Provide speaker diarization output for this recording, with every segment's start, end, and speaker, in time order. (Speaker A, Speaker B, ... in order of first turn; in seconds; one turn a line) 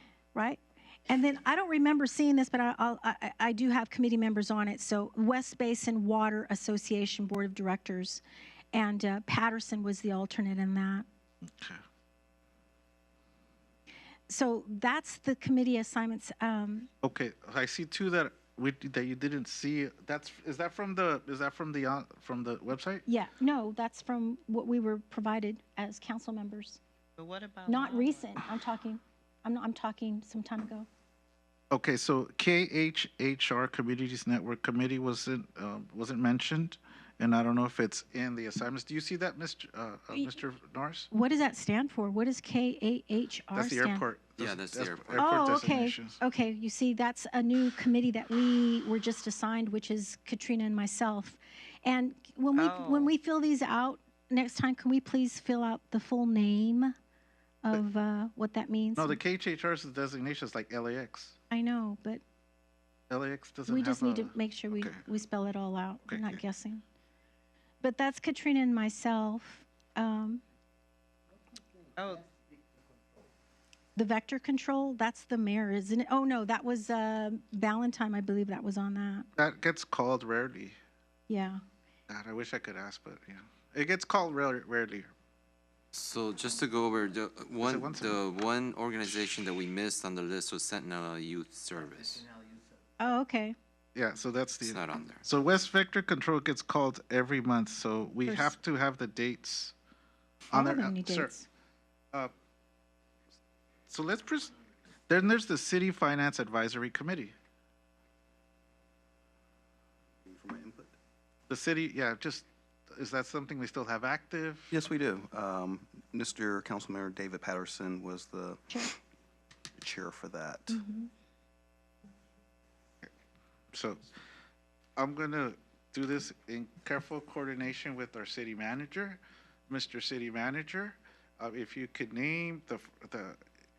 Speaker A: 0.3-11.1
Speaker B: 11.5-11.8
Speaker A: 14.3-16.9
Speaker B: 17.0-23.0
Speaker A: 23.1-26.8
Speaker C: 27.2-28.3
Speaker A: 27.7-30.9
Speaker B: 31.7-41.1
Speaker A: 41.1-44.0
Speaker B: 43.5-46.2
Speaker D: 44.4-45.3
Speaker A: 45.1-56.9
Speaker C: 52.5-53.1
Speaker A: 57.6-59.2
Speaker B: 59.0-61.3
Speaker A: 61.5-62.2
Speaker B: 63.1-65.0
Speaker A: 63.7-66.8
Speaker B: 66.1-66.4
Speaker A: 67.8-70.4
Speaker C: 72.0-72.3
Speaker A: 74.0-79.3
Speaker B: 79.3-80.8
Speaker A: 81.3-81.6
Speaker B: 82.1-85.1
Speaker D: 85.9-92.2
Speaker B: 87.6-88.2
Speaker A: 93.0-93.5
Speaker B: 93.9-99.7
Speaker D: 94.6-95.2
Speaker A: 98.2-98.5
Speaker B: 100.5-101.3
Speaker A: 100.5-101.5
Speaker B: 103.9-104.5
Speaker B: 105.1-107.3
Speaker E: 110.2-110.9
Speaker B: 111.5-114.8
Speaker E: 114.7-118.8
Speaker E: 119.8-120.8
Speaker A: 120.7-121.1
Speaker B: 123.7-124.0
Speaker B: 125.0-133.4